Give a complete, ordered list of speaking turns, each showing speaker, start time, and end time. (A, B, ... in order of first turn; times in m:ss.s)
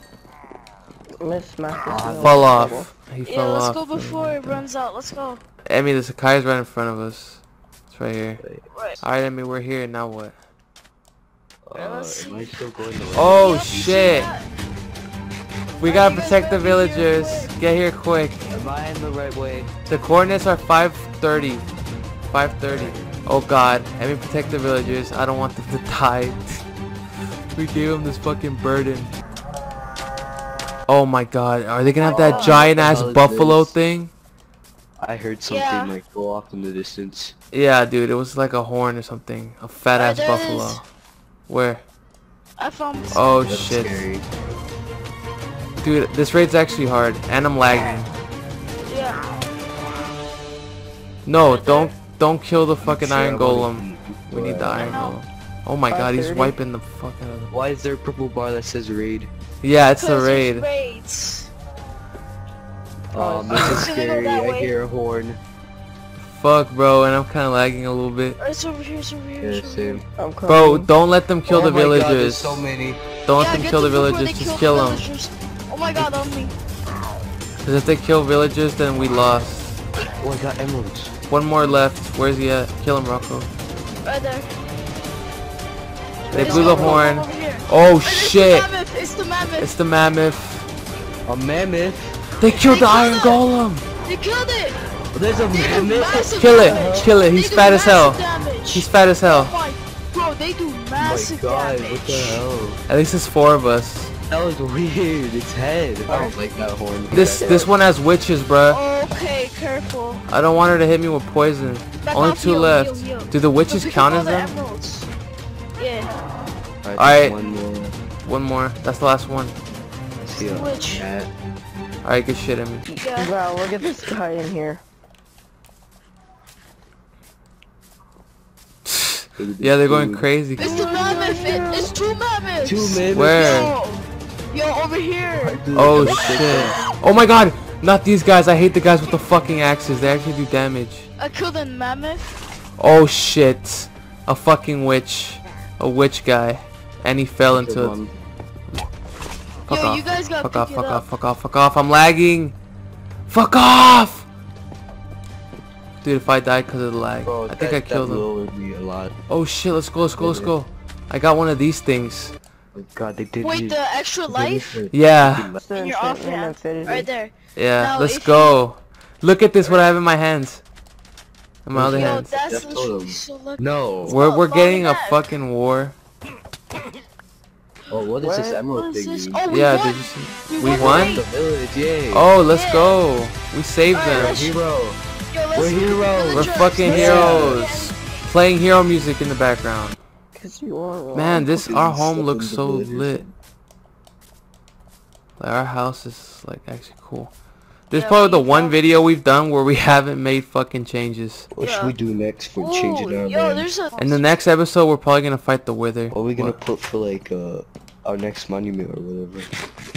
0:01.2-0:02.9 A
0:01.8-0:02.8 B
0:02.2-0:04.7 C
0:03.2-0:05.4 D
0:05.7-0:08.4 C
0:08.4-0:08.6 B
0:08.7-0:09.0 D
0:09.0-0:10.4 C
0:11.6-0:13.5 B
0:11.7-0:12.6 D
0:13.1-0:14.3 C
0:13.4-0:14.5 D
0:15.8-0:18.4 C
0:15.8-0:17.5 D
0:18.5-0:19.7 B
0:19.9-0:21.7 C
0:22.3-0:26.6 C
0:22.7-0:23.2 B
0:27.5-0:29.1 C
0:30.9-0:34.1 C
0:32.0-0:32.6 D
0:32.0-0:33.8 B
0:35.0-0:37.4 B
0:35.5-0:36.0 D
0:37.5-0:40.9 C
0:39.9-0:40.8 D
0:41.5-0:41.8 C
0:42.6-0:43.3 D
0:43.1-0:44.1 C
0:43.5-0:44.3 B
0:45.8-0:48.1 C
0:48.9-0:49.2 D
0:51.2-0:57.5 C
0:51.4-0:51.9 D
0:52.8-0:55.0 B
0:54.8-0:55.2 D
0:55.9-0:56.6 A
0:57.5-0:59.3 B
0:59.6-1:00.7 C
1:00.0-1:01.5 D
1:03.1-1:05.4 B
1:03.2-1:03.8 A
1:03.6-1:04.7 D
1:06.2-1:08.4 C
1:08.4-1:10.0 D
1:09.4-1:10.0 B
1:10.2-1:10.9 A
1:10.5-1:12.6 C
1:11.5-1:13.0 B
1:13.3-1:15.0 C
1:13.4-1:16.5 D
1:17.6-1:19.8 C
1:20.2-1:21.2 B
1:21.3-1:23.5 C
1:24.0-1:24.5 D
1:26.3-1:27.1 A
1:26.3-1:28.7 C
1:26.4-1:29.7 D
1:29.6-1:30.7 C
1:31.3-1:32.2 B
1:32.4-1:33.9 C
1:32.4-1:33.4 D
1:34.1-1:34.8 D
1:35.1-1:37.2 B
1:35.5-1:42.4 D
1:36.4-1:39.6 C
1:41.0-1:42.8 B
1:42.9-1:44.1 C
1:44.3-1:47.7 B
1:46.1-1:46.4 A
1:47.1-1:48.8 C
1:47.1-1:47.7 A
1:48.7-1:50.2 D
1:50.3-1:54.6 C
1:52.0-1:55.1 D
1:55.8-1:56.2 D
1:56.8-1:58.0 B
1:57.0-1:57.4 C
1:58.2-1:59.6 C
2:00.2-2:01.3 B
2:00.4-2:01.1 D
2:02.0-2:02.9 C
2:02.9-2:04.8 A
2:03.0-2:03.3 D
2:08.8-2:10.8 C
2:09.4-2:10.3 B
2:10.6-2:15.6 D
2:10.6-2:11.9 A
2:12.6-2:13.7 B
2:13.1-2:13.8 C
2:15.4-2:16.8 B
2:15.8-2:21.1 C
2:21.2-2:22.3 D
2:22.8-2:28.0 C
2:27.5-2:28.1 B
2:29.7-2:32.6 C
2:29.7-2:31.0 D
2:33.3-2:34.3 C
2:36.0-2:38.3 C
2:37.2-2:39.1 B
2:39.3-2:42.4 C
2:40.1-2:40.6 B
2:42.7-2:45.6 B
2:43.4-2:44.8 D
2:44.9-2:45.5 C
2:45.6-2:47.1 A
2:45.7-2:48.6 D
2:47.6-2:50.6 C
2:51.7-2:52.3 C
2:51.7-2:54.2 B
2:51.9-2:55.3 D
2:54.0-2:56.0 C
2:57.9-2:59.4 B
2:58.2-2:58.6 A
2:58.7-3:01.2 D
2:59.5-3:01.2 C
3:00.6-3:02.3 B
3:02.1-3:04.4 C
3:02.5-3:03.0 D
3:03.9-3:04.6 D
3:04.1-3:05.0 B
3:05.3-3:08.3 D
3:05.6-3:07.6 B
3:06.3-3:10.0 C
3:06.8-3:07.4 A
3:10.4-3:11.4 A
3:11.1-3:13.3 C
3:11.3-3:13.3 B
3:15.4-3:17.3 C
3:17.9-3:21.5 C
3:17.9-3:19.0 D
3:21.5-3:23.7 B
3:21.6-3:21.9 D
3:22.6-3:24.4 D
3:24.0-3:26.6 C
3:26.1-3:29.5 B